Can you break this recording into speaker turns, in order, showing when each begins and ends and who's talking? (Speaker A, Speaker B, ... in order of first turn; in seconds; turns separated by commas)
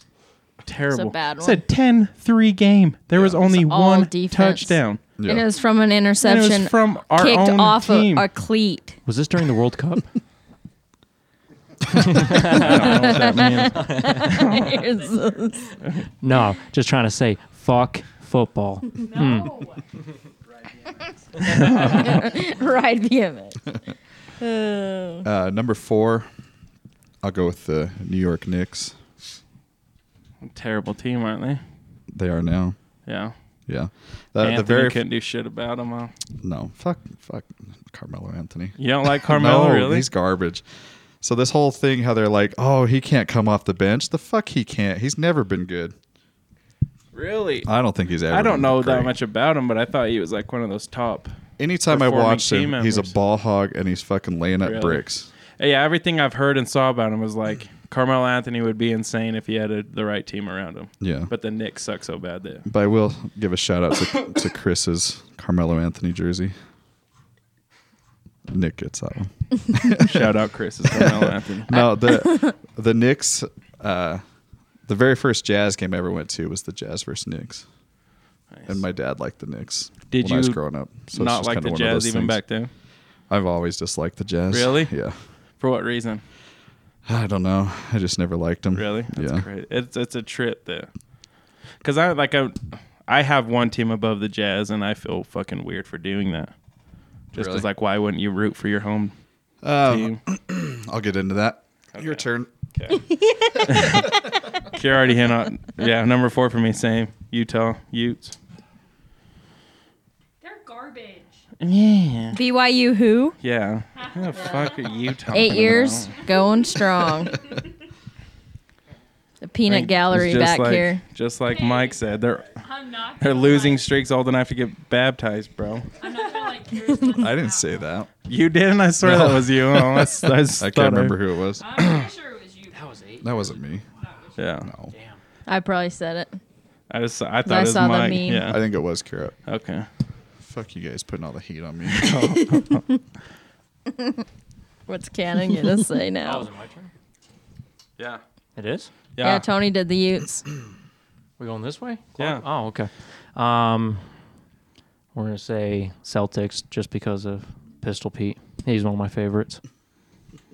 Speaker A: 0.6-5.0, Speaker B: 0.9-1.6, Speaker B: 3.4-9.0, Speaker C: 5.2-5.4, Speaker A: 6.2-8.3, Speaker D: 9.1-10.1, Speaker D: 11.9-13.1, Speaker A: 12.4-14.7, Speaker B: 12.5-15.8, Speaker D: 13.9-14.3, Speaker D: 16.2-19.6, Speaker E: 19.0-19.8, Speaker A: 21.4-22.2, Speaker B: 21.6-23.8, Speaker B: 24.4-25.2, Speaker C: 25.2-26.3, Speaker C: 27.2-28.9, Speaker A: 30.4-31.6, Speaker C: 32.1-32.8, Speaker A: 33.1-33.3, Speaker C: 33.7-35.0, Speaker A: 34.4-36.1, Speaker C: 36.4-40.6, Speaker A: 38.8-40.1, Speaker C: 41.2-45.9, Speaker A: 47.1-47.7, Speaker C: 47.6-49.1, Speaker A: 48.3-51.3, Speaker C: 51.6-55.3, Speaker A: 51.9-53.1, Speaker A: 54.6-55.0, Speaker A: 55.6-62.6, Speaker C: 61.0-61.3, Speaker C: 62.6-66.5, Speaker C: 68.5-70.3, Speaker A: 69.9-71.7, Speaker C: 70.9-74.2, Speaker B: 71.7-72.5, Speaker C: 74.8-77.6, Speaker A: 78.5-78.8, Speaker C: 78.7-82.4, Speaker A: 80.1-82.7, Speaker C: 83.3-85.2, Speaker A: 84.5-84.9, Speaker A: 85.6-86.2, Speaker C: 87.0-89.5, Speaker A: 88.7-90.9, Speaker A: 91.8-96.5, Speaker A: 97.3-99.1, Speaker C: 97.3-97.7, Speaker C: 99.6-102.5, Speaker A: 99.8-100.2, Speaker A: 101.9-103.0, Speaker A: 103.7-104.1, Speaker A: 104.7-108.3, Speaker E: 110.4-111.4, Speaker A: 111.6-112.4, Speaker B: 112.3-113.4, Speaker A: 113.4-116.2, Speaker E: 113.9-115.1, Speaker B: 114.4-114.6, Speaker B: 115.3-117.4, Speaker E: 116.1-116.5, Speaker B: 119.4-121.0, Speaker A: 119.7-122.6, Speaker E: 121.5-122.0, Speaker E: 122.5-123.9, Speaker A: 123.2-125.9, Speaker E: 126.0-127.8, Speaker C: 127.1-128.1, Speaker A: 128.3-131.2, Speaker C: 129.0-131.7, Speaker E: 131.6-132.9, Speaker D: 132.7-133.6, Speaker C: 133.2-133.8, Speaker E: 134.0-134.4, Speaker A: 134.4-134.7, Speaker C: 134.6-134.9, Speaker D: 134.9-135.2, Speaker B: 135.5-136.4, Speaker A: 136.9-138.6, Speaker B: 137.4-138.5, Speaker C: 138.5-139.3, Speaker A: 139.4-139.9, Speaker C: 140.4-142.2, Speaker A: 141.9-142.8, Speaker B: 144.9-146.4, Speaker D: 146.2-146.9, Speaker D: 148.6-148.9, Speaker A: 149.2-149.4, Speaker B: 149.2-150.4, Speaker D: 151.4-154.1, Speaker A: 152.2-152.4, Speaker D: 155.1-159.6